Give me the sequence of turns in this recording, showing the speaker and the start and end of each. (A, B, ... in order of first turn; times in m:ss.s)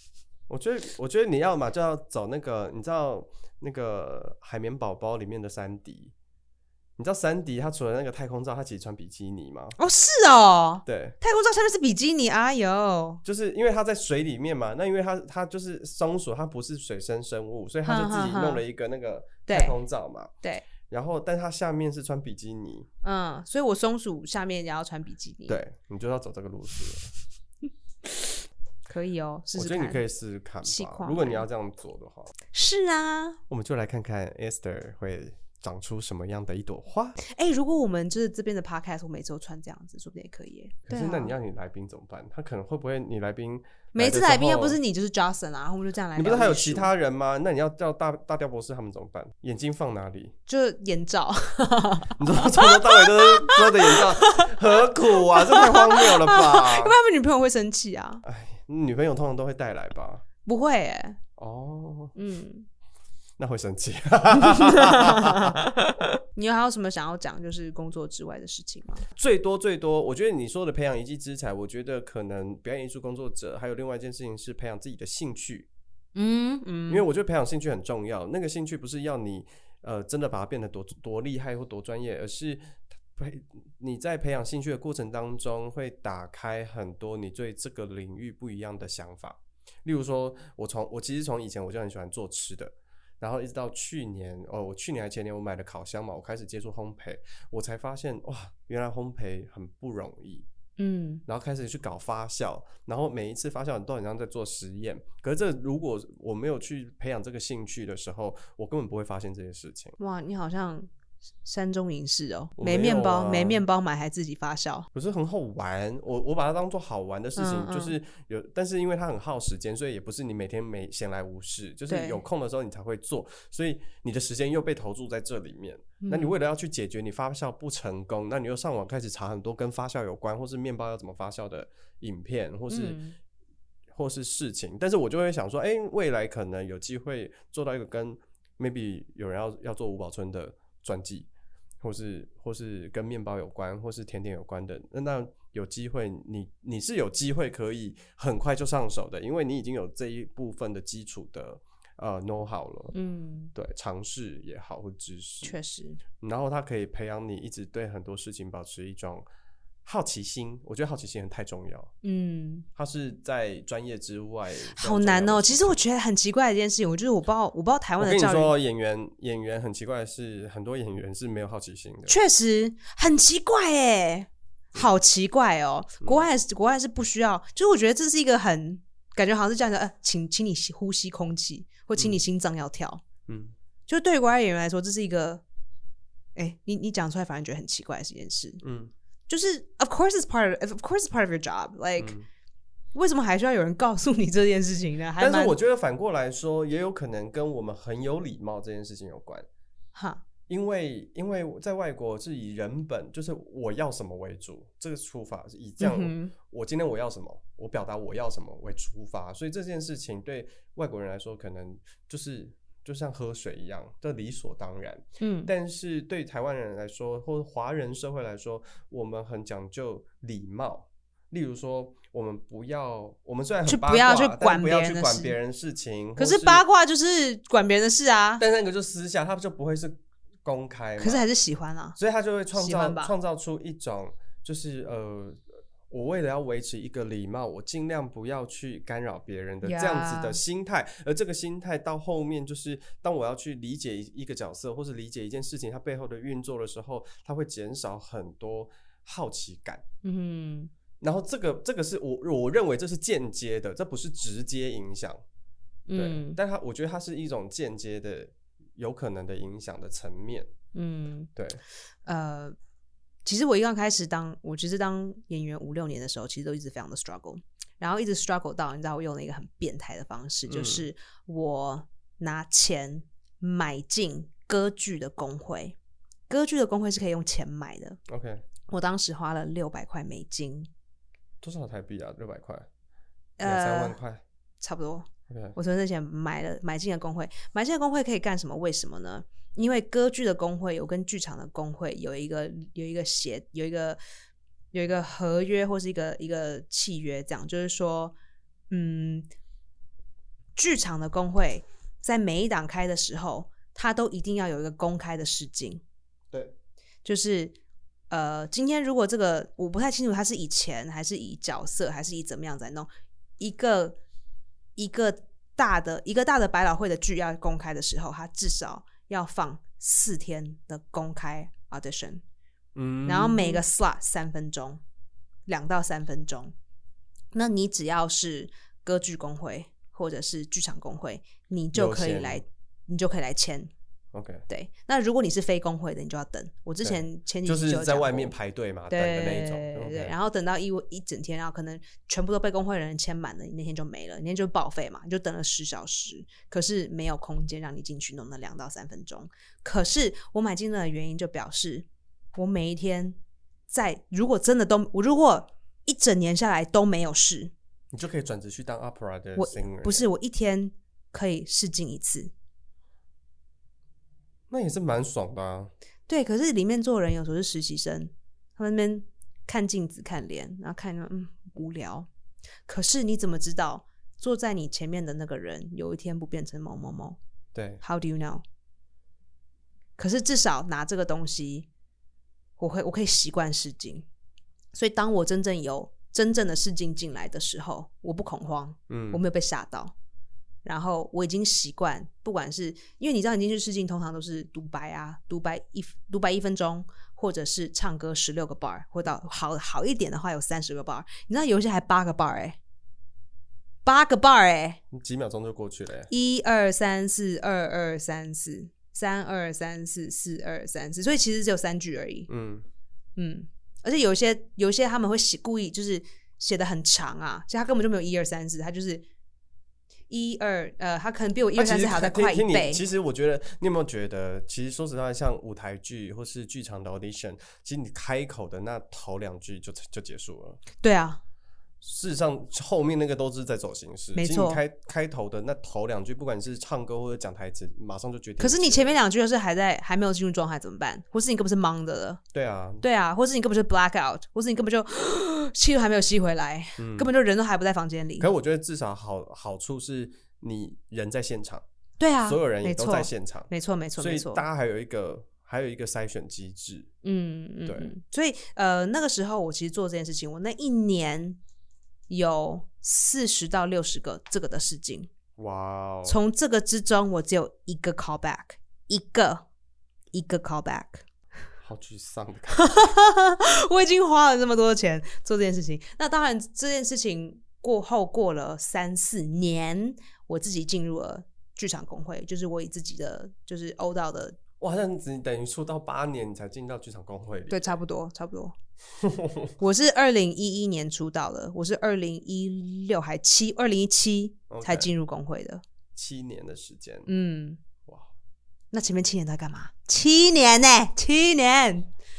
0:00.5-0:06.1 A
0:07.0-0:09.8 A
0:09.8-0:13.2 B
0:10.9-0:11.2 A
0:13.2-0:20.3 A
0:17.8-0:18.6 B
0:19.5-0:19.8 B
0:20.9-0:22.9 A
0:23.0-0:25.6 B
0:25.5-0:27.1 A
0:28.9-0:30.0 B
0:29.5-0:32.3 A
0:30.6-0:31.4 B
0:32.5-0:33.4 B
0:33.5-0:37.2 A
0:37.2-0:41.3 B
0:40.9-0:44.8 A
0:44.0-0:46.9 B
0:46.2-0:50.3 A
0:50.5-0:58.2 B
0:52.2-0:57.0 A
0:58.2-1:00.2 A
1:00.4-1:01.2 B
1:01.4-1:02.1 A
1:02.2-1:02.7 B
1:03.4-1:05.7 A
1:04.4-1:09.0 B
1:09.2-1:15.7 A
1:16.2-1:17.1 B
1:16.9-1:40.5 A
1:40.8-1:41.2 B
1:41.3-1:50.0 A
1:50.0-1:50.9 B
1:51.4-1:54.9 B
1:52.6-1:53.6 A
1:54.9-2:13.0 A
1:57.4-1:58.0 B
2:01.9-2:02.2 B
2:06.0-2:06.4 B
2:12.7-2:13.2 B
2:13.9-2:21.3 A
2:21.8-2:32.9 A
2:32.9-2:33.5 B
2:33.6-2:35.6 A
2:35.4-2:36.0 B
2:36.2-2:39.2 A
2:39.8-2:41.9 A
2:42.0-2:42.7 B
2:42.8-2:45.8 A
2:44.8-2:48.5 B
2:48.0-2:52.2 A
2:52.1-3:03.0 B
3:03.3-3:03.6 A
3:03.9-3:05.4 B
3:06.4-3:08.6 B
3:08.6-3:08.9 A
3:09.3-3:12.2 B
3:12.0-3:12.3 A
3:12.9-3:15.6 B
3:15.2-3:19.5 A
3:20.0-3:20.2 B
3:20.5-3:46.6 A
3:25.8-3:26.3 B
3:35.2-3:35.5 B
3:43.7-3:45.4 B
3:46.2-3:48.4 B
3:48.4-3:51.2 A
3:51.0-3:52.0 B
3:52.0-4:09.8 A
3:52.5-3:53.1 B
3:59.6-4:00.4 B
4:10.0-4:10.7 B
4:11.0-4:15.2 A
4:15.9-4:16.4 B
4:16.0-4:20.5 A
4:20.8-4:21.3 B
4:21.4-4:21.6 A
4:22.1-4:22.6 B
4:23.2-4:35.8 B
4:30.5-4:30.9 A
4:36.3-4:38.0 B
4:38.1-4:38.4 A
4:38.7-4:40.7 B
4:41.4-4:42.7 A
4:43.4-4:44.0 B
4:43.4-4:44.2 A
4:44.6-4:54.0 B
4:45.3-4:45.6 A
4:54.7-4:58.2 B
4:58.7-4:59.3 B
5:00.6-5:05.8 B
5:07.0-5:07.6 B
5:08.1-5:14.0 B
5:14.8-5:22.2 B
5:22.8-5:23.6 A
5:23.1-5:24.8 B
5:25.5-5:26.5 B
5:27.3-5:33.7 B
5:31.7-5:32.4 A
5:34.1-5:34.4 A
5:34.5-5:38.3 B
5:36.8-5:40.1 A
5:38.9-5:53.2 B
5:53.7-5:57.5 B
5:57.9-6:00.0 A
5:59.4-6:02.3 B
6:04.5-6:05.7 A
6:06.1-6:12.1 B
6:12.7-6:17.2 B
6:17.5-6:17.8 A
6:17.8-6:18.4 B
6:20.0-6:21.7 B
6:22.6-6:24.1 B
6:24.7-6:29.9 B
6:28.9-6:29.2 A
6:30.6-6:42.6 B
6:43.8-6:44.8 B
6:44.9-6:46.1 A
6:46.1-6:52.3 B
6:52.3-6:52.7 A
6:53.2-6:59.0 B
7:00.1-7:02.8 B
7:01.6-7:10.6 A
7:10.8-7:11.2 B
7:11.8-7:19.0 A
7:14.2-7:14.6 B
7:18.4-7:22.2 B
7:22.3-7:22.8 A
7:22.8-7:28.3 B
7:26.8-7:27.1 A
7:28.2-7:31.6 A
7:32.0-7:34.4 B
7:32.2-7:36.9 A
7:37.0-7:41.4 B
7:37.7-7:37.9 A
7:42.1-7:45.1 B
7:45.4-7:46.2 A
7:46.0-7:49.5 B
7:50.1-7:51.0 B
7:51.6-7:52.7 A
7:52.5-8:04.4 B
8:04.6-8:07.7 A
8:07.5-8:08.6 B
8:09.0-8:09.5 A
8:09.6-8:15.6 B
8:14.5-8:14.9 A
8:16.0-8:17.1 A
8:17.1-8:17.6 B
8:18.7-8:21.9 B